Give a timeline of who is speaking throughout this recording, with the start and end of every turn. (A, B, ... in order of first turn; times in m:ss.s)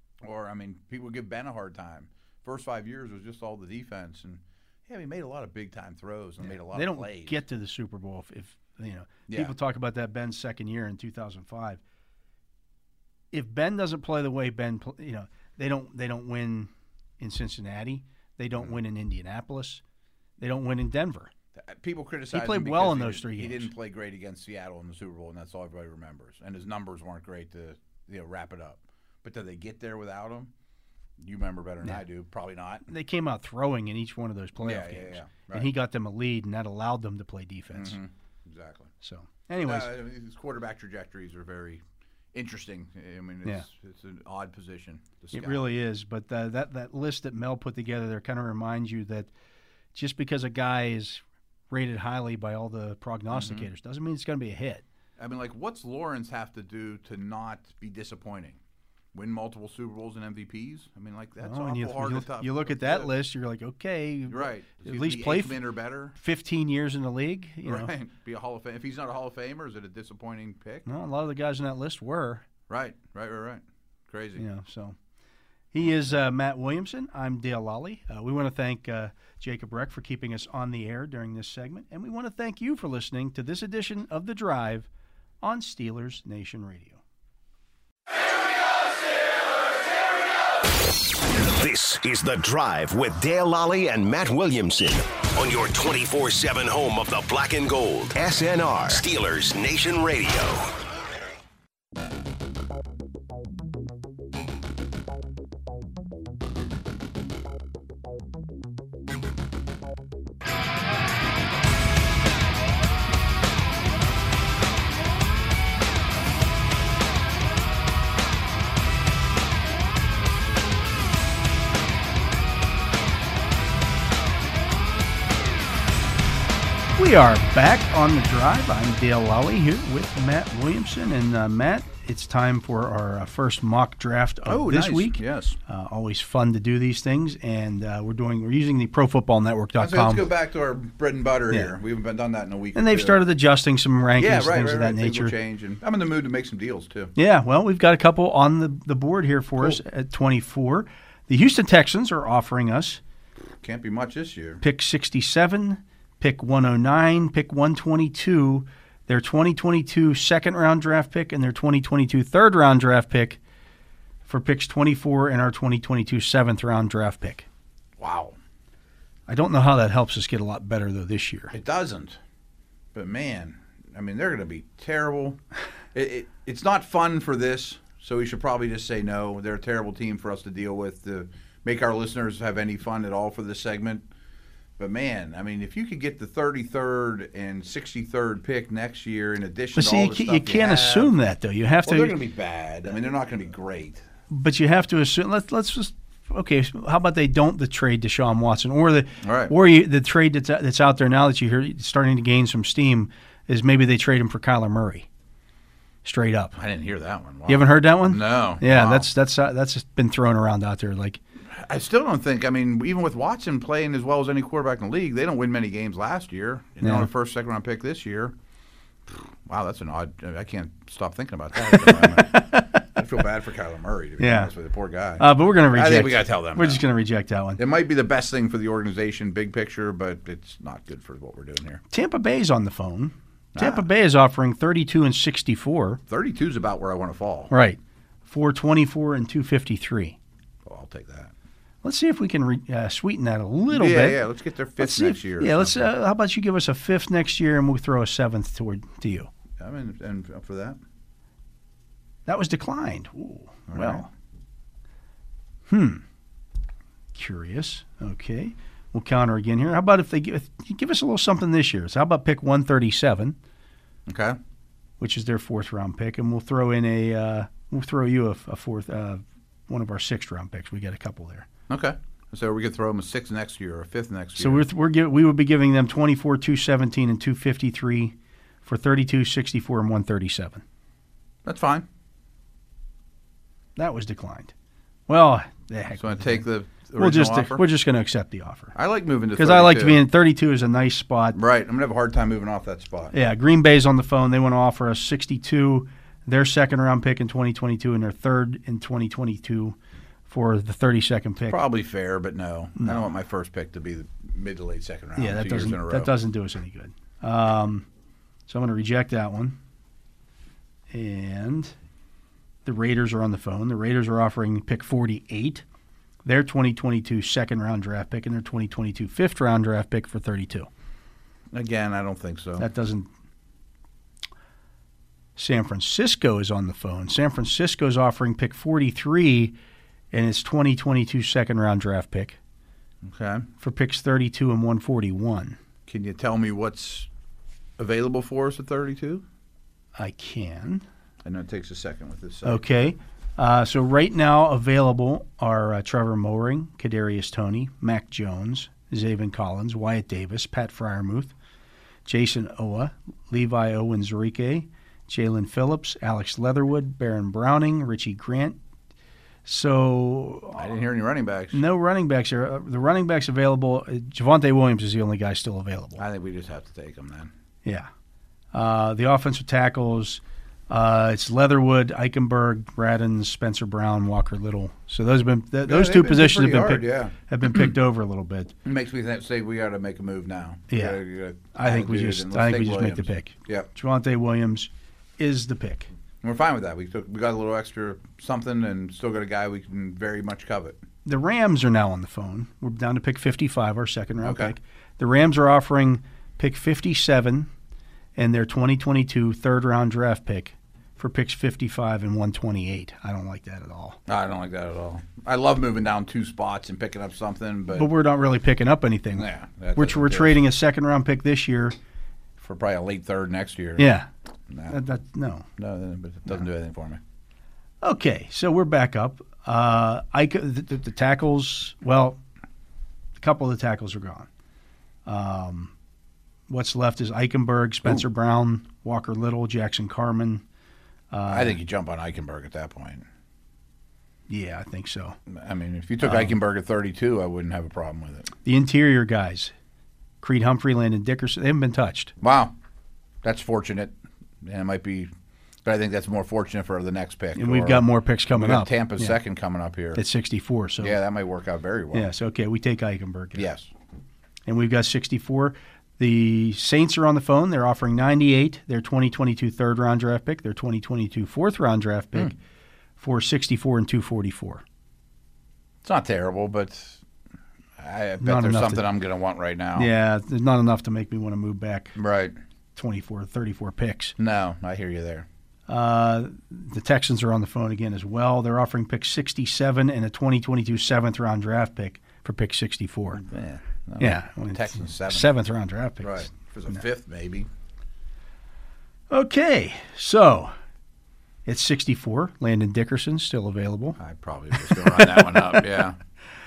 0:00.2-0:07.4 A
0:06.4-0:11.8 B
0:09.3-0:09.5 A
0:13.3-0:19.8 B
0:20.4-0:21.3 B
0:21.6-0:30.5 A
0:22.3-0:23.7 B
0:31.2-0:32.9 A
0:32.9-0:38.0 B
0:34.6-0:35.7 A
0:37.7-0:38.9 A
0:39.0-0:39.9 B
0:39.6-0:41.8 A
0:42.3-0:45.7 A
0:45.3-0:49.3 B
0:49.9-0:54.8 B
0:53.3-0:53.7 A
0:55.2-0:58.6 A
0:59.1-1:03.1 A
1:01.4-1:05.6 B
1:04.3-1:06.2 A
1:06.2-1:07.9 B
1:07.6-1:10.8 A
1:10.8-1:12.4 B
1:12.7-1:14.4 A
1:14.4-1:15.0 B
1:15.7-1:24.9 B
1:25.4-1:27.0 B
1:31.2-1:40.7 C
2:07.0-2:20.2 B
2:14.4-2:15.6 A
2:19.8-2:23.2 A
2:22.7-2:25.3 B
2:24.2-2:27.1 A
2:27.2-2:33.0 B
2:33.6-2:34.6 A
2:34.6-2:43.4 B
2:44.2-2:47.5 B
2:48.0-2:48.4 A
2:49.3-2:51.5 B
2:51.5-2:52.2 A
2:52.9-2:55.4 A
2:55.9-3:04.0 A
3:04.8-3:11.1 A
3:09.7-3:12.2 B
3:11.8-3:14.0 A
3:14.3-3:25.1 B
3:19.2-3:19.5 A
3:26.0-3:26.6 B
3:26.6-3:29.1 A
3:27.5-3:31.2 B
3:31.5-3:38.3 A
3:36.8-3:37.1 B
3:39.1-3:46.8 A
3:41.6-3:42.9 B
3:44.2-3:44.5 B
3:45.2-3:47.6 B
3:47.6-3:51.8 A
3:51.9-3:56.0 B
3:53.5-3:53.8 A
3:56.1-3:57.5 A
3:57.5-4:00.2 B
4:00.6-4:01.3 A
4:01.8-4:04.2 B
4:03.7-4:05.8 A
4:04.8-4:09.3 B
4:09.6-4:10.8 A
4:12.2-4:14.1 B
4:13.7-4:14.1 A
4:15.7-4:16.0 B
4:17.1-4:23.4 B
4:24.1-4:24.4 A
4:25.0-4:31.5 B
4:31.7-4:34.6 A
4:34.4-4:40.6 B
4:41.4-4:41.8 A
4:43.8-4:44.5 B
4:45.1-4:48.7 B
4:46.0-4:47.6 A
4:48.7-4:50.0 A
4:49.4-4:51.4 B
4:51.3-4:53.1 A
4:53.1-4:59.8 B
5:00.3-5:01.6 B
5:01.5-5:06.1 A
5:02.8-5:03.0 B
5:05.2-5:07.9 B
5:08.5-5:09.6 B
5:10.9-5:11.7 B
5:12.6-5:15.6 B
5:16.2-5:20.7 B
5:21.5-5:22.7 A
5:22.6-5:23.1 B
5:25.4-5:29.6 B
5:30.1-5:32.4 B
5:33.0-5:33.4 A
5:33.6-5:35.6 B
5:35.9-5:37.1 A
5:37.8-5:39.2 A
5:40.0-5:40.8 B
5:41.2-5:42.8 A
5:42.4-5:51.3 B
5:52.0-5:58.6 B
5:59.4-6:00.7 B
6:00.6-6:01.6 A
6:01.5-6:06.0 B
6:06.0-6:07.3 A
6:08.5-6:18.5 B
6:15.6-6:17.7 A
6:18.6-6:23.7 A
6:20.7-6:21.0 B
6:21.5-6:25.9 B
6:26.2-6:30.8 A
6:31.0-6:37.5 B
6:34.2-6:34.5 A
6:38.2-6:44.0 B
6:44.1-6:47.9 A
6:47.7-6:51.8 B
6:49.1-6:50.4 A
6:52.4-6:53.9 A
6:53.8-6:54.1 B
6:54.5-6:54.8 A
6:54.7-6:55.4 B
6:55.6-6:57.0 A
6:57.8-7:02.2 B
7:03.2-7:04.3 B
7:05.0-7:05.7 B
7:06.5-7:10.4 B
7:11.1-7:11.6 B
7:11.3-7:13.0 A
7:14.3-7:15.2 B
7:15.3-7:18.3 A
7:16.0-7:16.3 B
7:18.4-7:19.5 B
7:20.2-7:22.1 B
7:22.2-7:22.5 A
7:23.2-7:25.1 A
7:25.6-7:30.0 A
7:27.3-7:29.2 B
7:29.9-7:31.0 B
7:30.8-7:32.1 A
7:31.9-7:33.5 B
7:33.4-7:33.7 A
7:34.5-7:42.3 B
7:43.0-7:44.6 B
7:45.8-7:47.0 A
7:47.8-7:49.9 A
7:48.2-7:48.8 B
7:49.8-7:52.0 B
7:52.0-7:52.3 A
7:52.8-7:54.1 B
7:54.2-7:55.3 A
7:55.7-8:03.2 B
8:03.1-8:05.3 A
8:04.0-8:06.8 B
8:06.0-8:07.5 A
8:09.1-8:10.5 B
8:11.4-8:14.0 B
8:14.0-8:16.0 A
8:14.6-8:15.6 B